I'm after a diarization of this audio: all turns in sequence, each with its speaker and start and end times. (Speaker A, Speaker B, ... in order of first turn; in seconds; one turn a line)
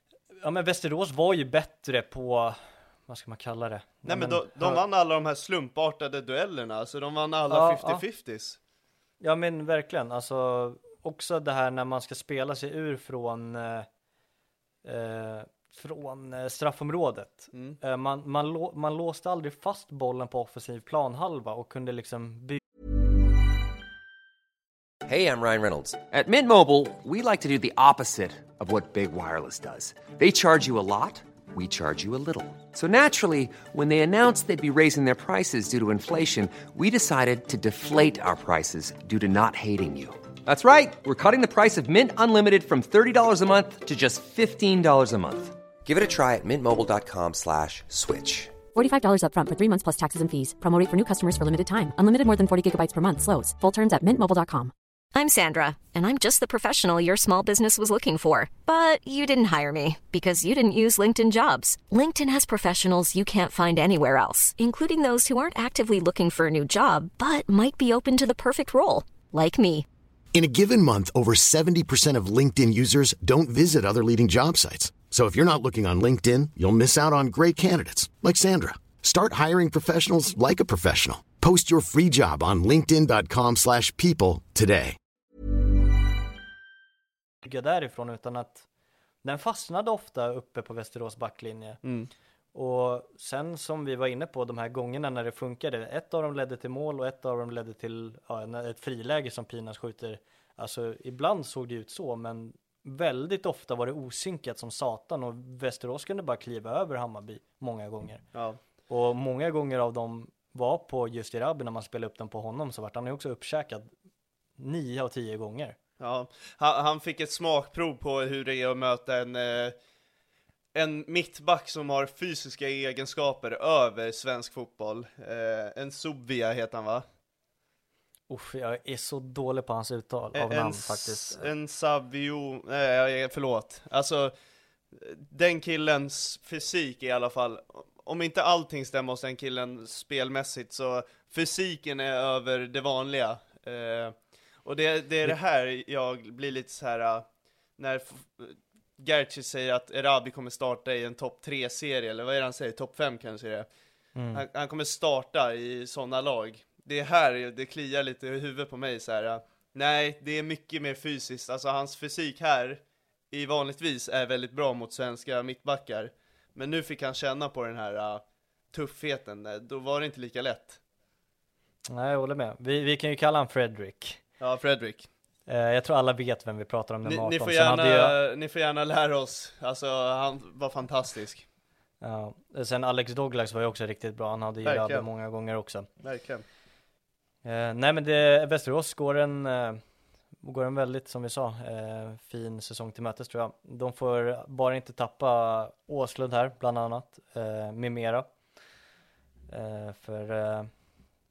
Speaker A: 0.3-4.8
Speaker B: 4.0-8.6
Speaker A: 7.5-8.0
Speaker A: 9.2-13.9
Speaker A: 14.8-22.6
Speaker B: 17.5-17.8
Speaker C: 25.0-48.6
Speaker D: 48.7-54.7
Speaker E: 55.1-69.8
Speaker F: 70.3-85.0
Speaker A: 87.4-88.7
Speaker A: 89.2-91.8
Speaker B: 91.8-92.1
Speaker A: 92.5-108.2
Speaker A: 108.9-113.9
Speaker A: 114.6-115.8
Speaker B: 116.0-119.8
Speaker B: 120.7-127.0
Speaker A: 128.3-131.5
Speaker B: 130.3-134.3
Speaker B: 134.9-147.2
Speaker B: 147.8-153.7
Speaker A: 154.1-154.4
Speaker B: 154.3-170.8
Speaker A: 171.9-174.2
Speaker B: 174.4-175.1
Speaker A: 175.4-178.2
Speaker B: 177.0-181.4
Speaker A: 182.0-185.9
Speaker B: 184.6-185.1
Speaker B: 186.0-186.4
Speaker A: 187.4-189.8
Speaker A: 190.4-198.3
Speaker A: 199.5-200.7